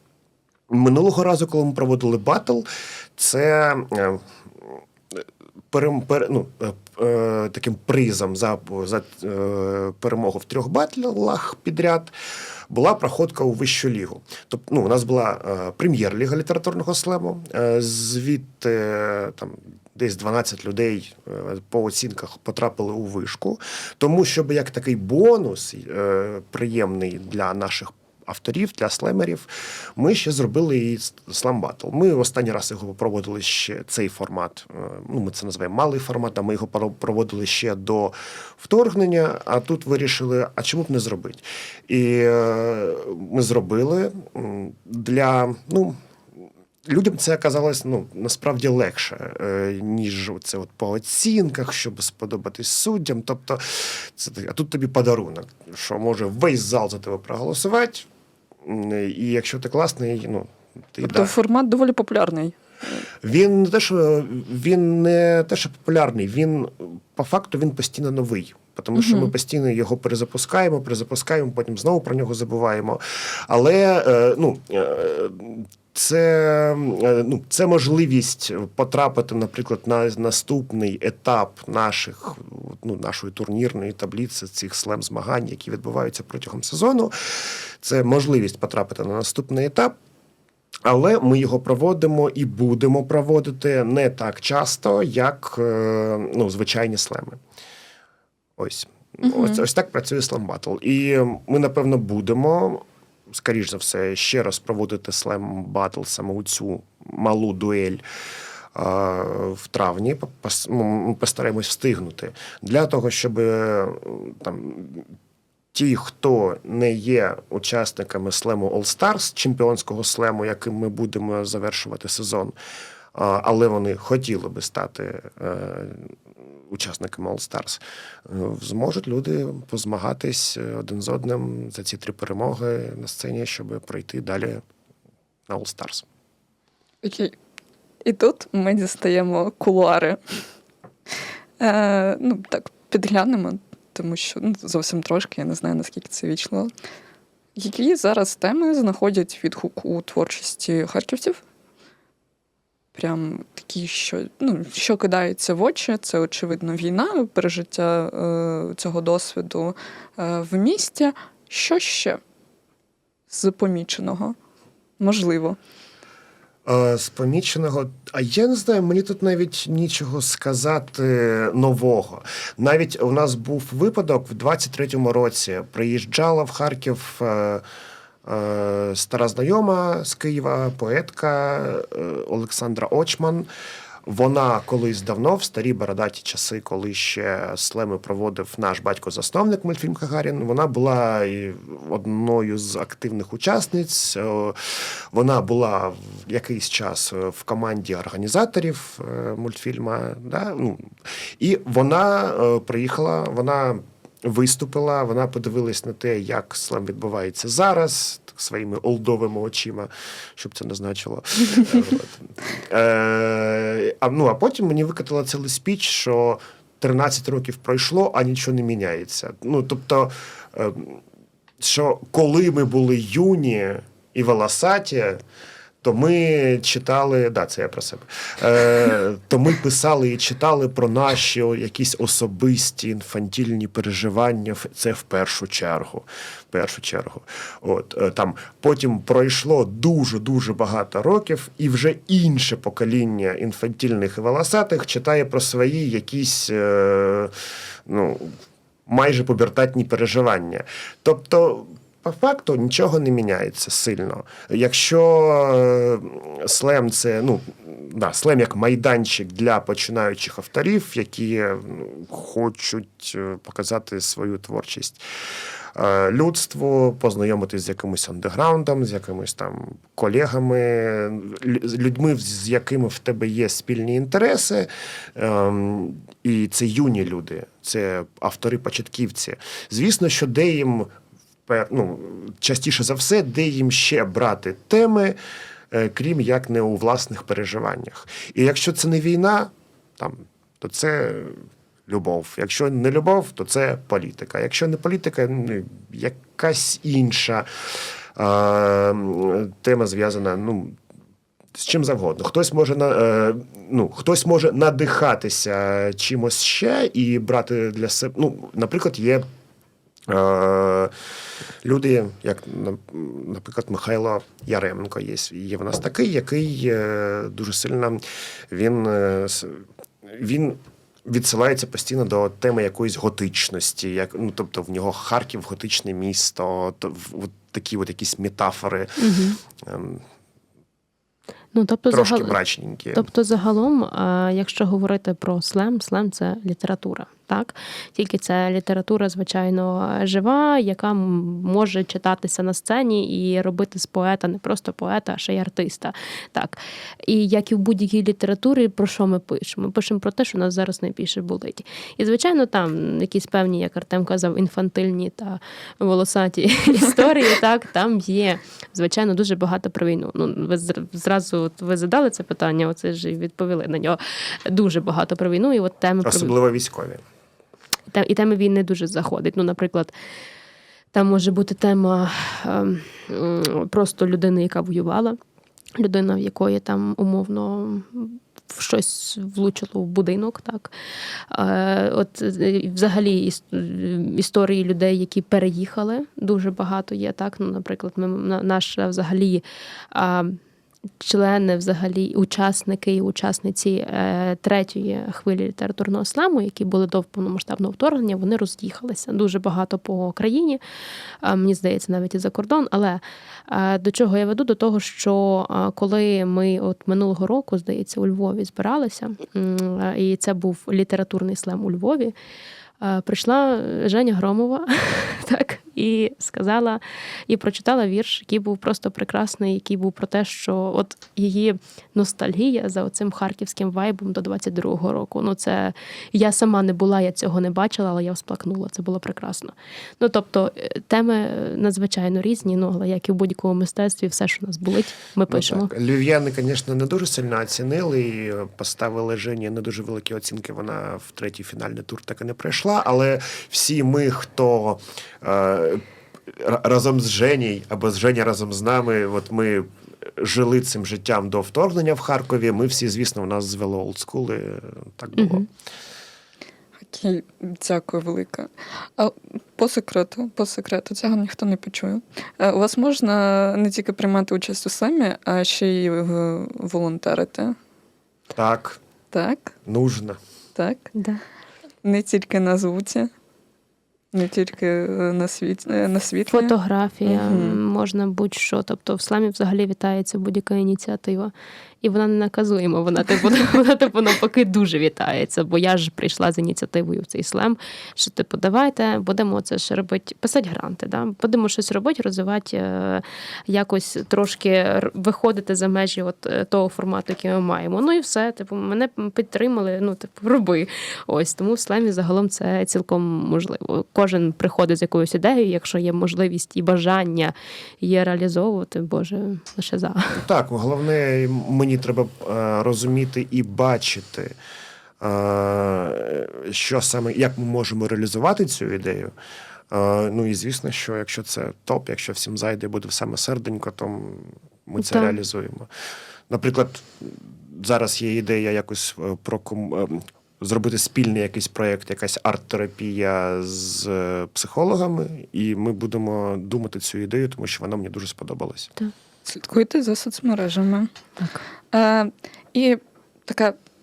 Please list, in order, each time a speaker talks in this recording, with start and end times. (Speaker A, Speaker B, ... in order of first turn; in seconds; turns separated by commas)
Speaker A: 0.7-12.1, Speaker A: 12.7-46.0, Speaker A: 46.9-58.1, Speaker A: 58.6-61.3, Speaker B: 61.0-63.0, Speaker A: 63.2-89.9, Speaker B: 68.9-69.3, Speaker A: 90.8-97.4, Speaker A: 98.6-108.0, Speaker B: 99.2-99.6, Speaker A: 108.7-115.1, Speaker A: 115.7-122.5, Speaker A: 123.1-126.1, Speaker A: 126.7-134.6, Speaker A: 135.5-136.0, Speaker B: 137.0-137.3, Speaker B: 138.0-140.2, Speaker B: 141.6-146.7, Speaker B: 147.6-151.4, Speaker B: 152.9-162.2, Speaker B: 163.3-164.4, Speaker B: 165.0-165.6, Speaker A: 166.6-177.6, Speaker A: 178.2-183.5, Speaker A: 184.1-221.0, Speaker A: 221.6-225.2, Speaker A: 225.8-247.3, Speaker A: 247.9-265.0, Speaker A: 265.7-280.9, Speaker A: 281.5-285.2, Speaker A: 285.7-300.8, Speaker A: 301.6-309.2, Speaker A: 310.1-310.9, Speaker A: 311.6-329.0, Speaker C: 329.0-329.4, Speaker A: 329.6-330.0, Speaker C: 331.5-332.4, Speaker A: 331.9-333.1, Speaker C: 332.9-366.4, Speaker A: 366.0-367.0, Speaker C: 367.9-369.9, Speaker C: 370.9-375.2, Speaker C: 375.8-380.7, Speaker C: 381.3-390.4, Speaker C: 391.0-400.6, Speaker C: 401.2-412.1, Speaker C: 412.8-435.7, Speaker A: 435.3-455.5, Speaker C: 455.2-455.4, Speaker B: 456.9-467.6, Speaker A: 468.4-468.8, Speaker B: 469.1-469.6, Speaker A: 469.6-470.2, Speaker B: 470.6-470.9, Speaker C: 470.9-471.2, Speaker B: 471.8-473.1, Speaker B: 474.1-476.5, Speaker C: 476.3-510.2, Speaker B: 477.1-477.6, Speaker A: 510.1-514.4, Speaker A: 515.0-519.1, Speaker A: 519.7-525.7, Speaker C: 524.8-525.2, Speaker A: 526.3-538.7, Speaker B: 539.2-540.9, Speaker B: 541.7-543.6